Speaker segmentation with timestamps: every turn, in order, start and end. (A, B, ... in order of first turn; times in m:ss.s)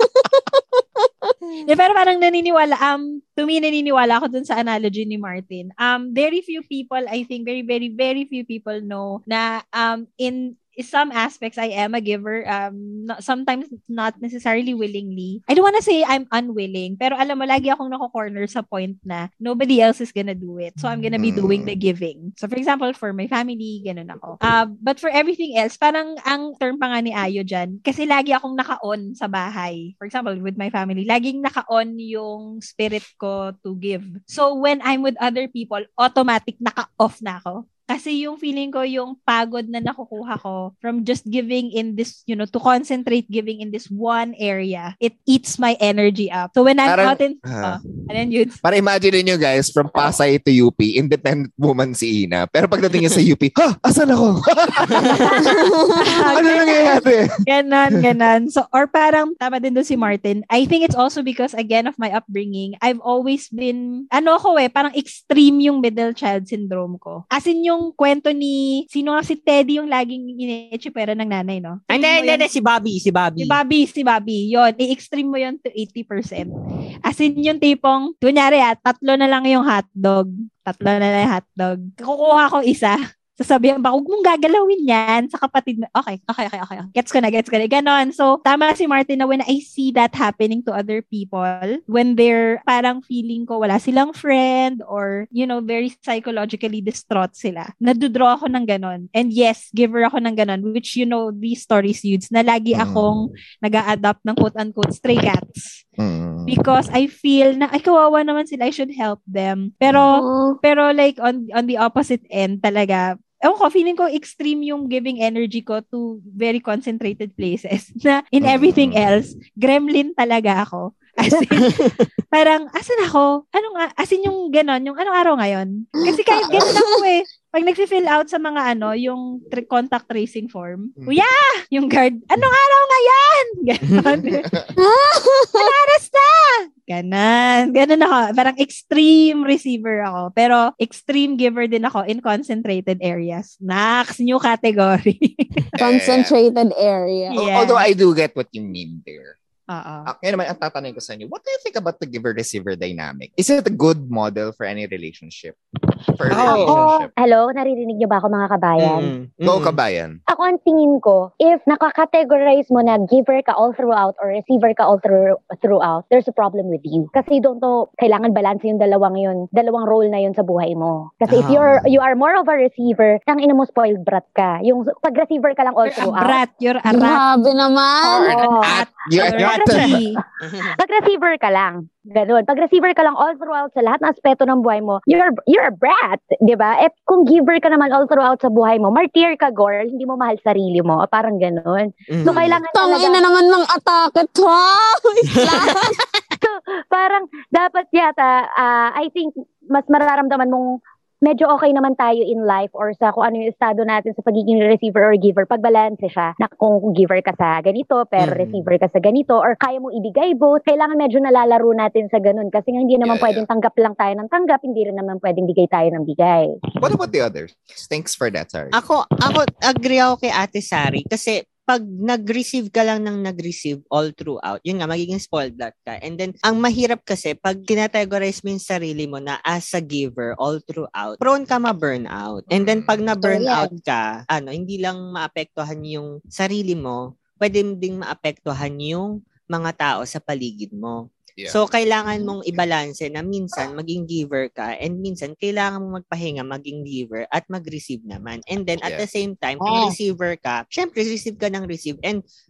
0:01.6-0:48.6 A
0:21.2-0:21.7 B
0:46.8-0:47.9 B
0:48.6-0:55.5 B
0:55.2-1:12.5 A
0:56.1-0:57.4 B
1:11.9-1:13.6 C
1:13.4-1:16.5 A
1:17.1-1:45.8 A
1:42.7-1:43.2 B
1:46.0-1:46.6 B
1:46.5-2:14.5 A
1:50.1-1:50.6 D
1:58.4-1:59.0 B
2:01.7-2:02.0 C
2:11.0-2:11.2 B
2:13.9-2:14.2 C
2:14.2-2:14.7 B
2:14.8-2:15.7 D
2:15.6-2:25.7 A
2:25.8-2:26.3 B
2:25.8-2:27.4 D
2:27.3-2:29.4 B
2:27.3-2:27.8 A
2:29.7-2:30.1 A
2:30.0-2:35.6 B
2:36.1-2:37.1 B
2:36.3-2:36.8 C
2:36.4-2:39.1 E
2:38.8-2:39.8 C
2:39.4-2:40.2 B
2:40.3-2:56.4 E
2:51.3-2:51.8 C
2:55.9-2:57.2 A
2:56.9-2:58.4 D
2:58.1-3:00.0 B
2:58.1-2:58.8 E
2:58.5-3:00.2 A
2:59.2-3:00.0 C
2:59.5-2:59.8 E
3:00.5-3:00.7 C
3:00.5-3:13.2 E
3:12.1-3:12.6 C
3:12.7-3:16.0 D
3:15.4-3:15.8 C
3:16.4-3:20.7 E
3:21.2-3:36.5 E
3:28.2-3:28.7 C
3:33.0-3:33.5 B
3:36.8-3:38.8 B
3:38.7-4:01.0 C
3:52.5-3:53.0 B
3:53.3-3:53.6 D
4:01.5-4:12.2 C
4:09.6-4:09.9 B